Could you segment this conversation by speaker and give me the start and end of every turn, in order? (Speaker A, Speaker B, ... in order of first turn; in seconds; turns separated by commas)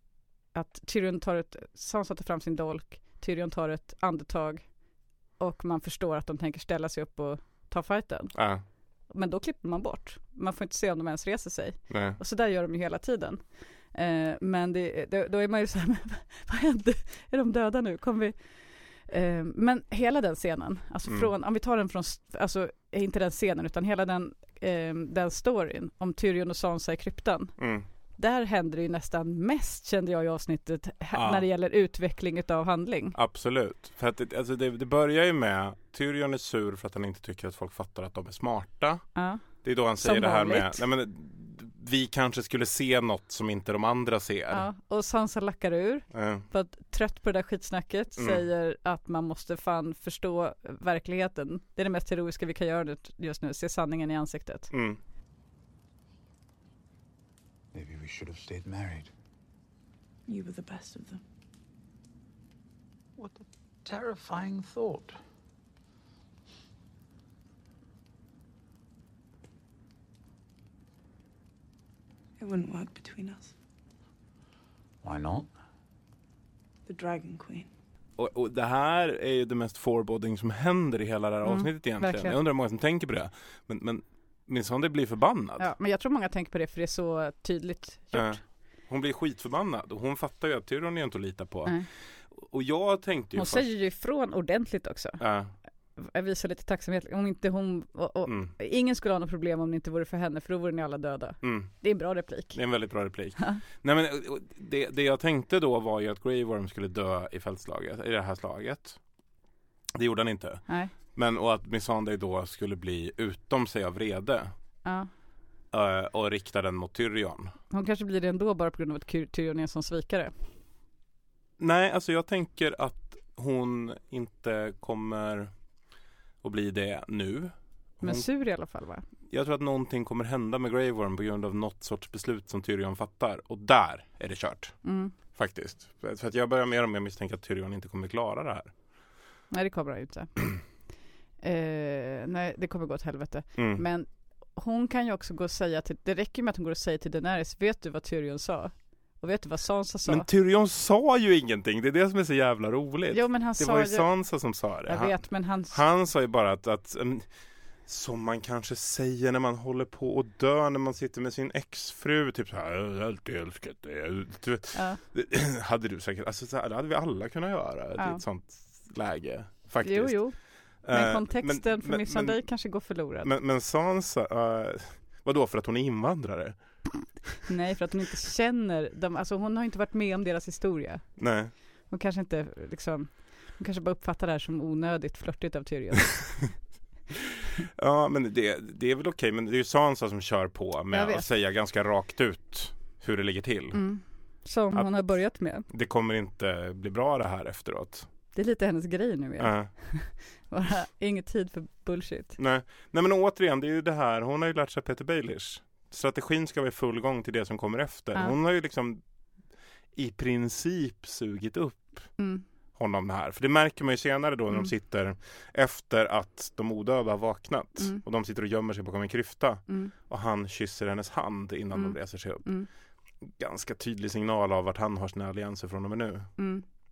Speaker A: 0.5-33.1, Speaker B: 8.3-8.6, Speaker B: 11.9-12.2, Speaker B: 27.6-27.9, Speaker B: 31.1-31.4, Speaker B: 33.1-44.6, Speaker A: 39.1-40.8, Speaker A: 44.5-54.7, Speaker B: 46.1-46.4, Speaker B: 48.2-48.4, Speaker B: 54.7-55.0, Speaker C: 57.8-59.0, Speaker D: 60.3-61.2, Speaker C: 64.0-65.1, Speaker D: 72.4-73.5, Speaker C: 75.1-75.4, Speaker D: 76.8-77.7, Speaker B: 78.2-85.7, Speaker A: 81.4-82.4, Speaker A: 85.6-88.4, Speaker B: 88.1-93.7, Speaker A: 93.3-95.2, Speaker B: 95.2-95.5, Speaker A: 96.0-102.9, Speaker B: 98.2-98.5, Speaker B: 101.4-101.8, Speaker B: 102.5-109.0, Speaker B: 110.0-114.5, Speaker A: 110.7-110.9, Speaker A: 114.8-115.1, Speaker B: 115.7-117.5, Speaker A: 117.7-120.3, Speaker B: 121.6-125.5, Speaker B: 126.4-128.3, Speaker A: 128.0-129.1, Speaker B: 129.3-138.7, Speaker A: 134.8-135.1, Speaker A: 139.5-140.8, Speaker A: 141.4-150.3, Speaker B: 143.6-143.8, Speaker B: 150.1-176.6, Speaker A: 153.1-155.8, Speaker A: 164.7-165.0, Speaker A: 169.8-173.3, Speaker A: 177.4-186.6, Speaker B: 181.2-181.5, Speaker B: 187.8-193.9, Speaker A: 190.9-191.2, Speaker A: 193.7-195.6, Speaker B: 194.7-195.0, Speaker B: 195.6-198.1, Speaker A: 198.3-202.4, Speaker B: 199.4-199.7, Speaker B: 202.4-209.0, Speaker B: 209.9-212.1, Speaker A: 212.2-212.4, Speaker B: 212.7-222.5, Speaker A: 219.7-219.9, Speaker A: 221.7-222.7, Speaker B: 223.2-226.4, Speaker A: 226.4-226.6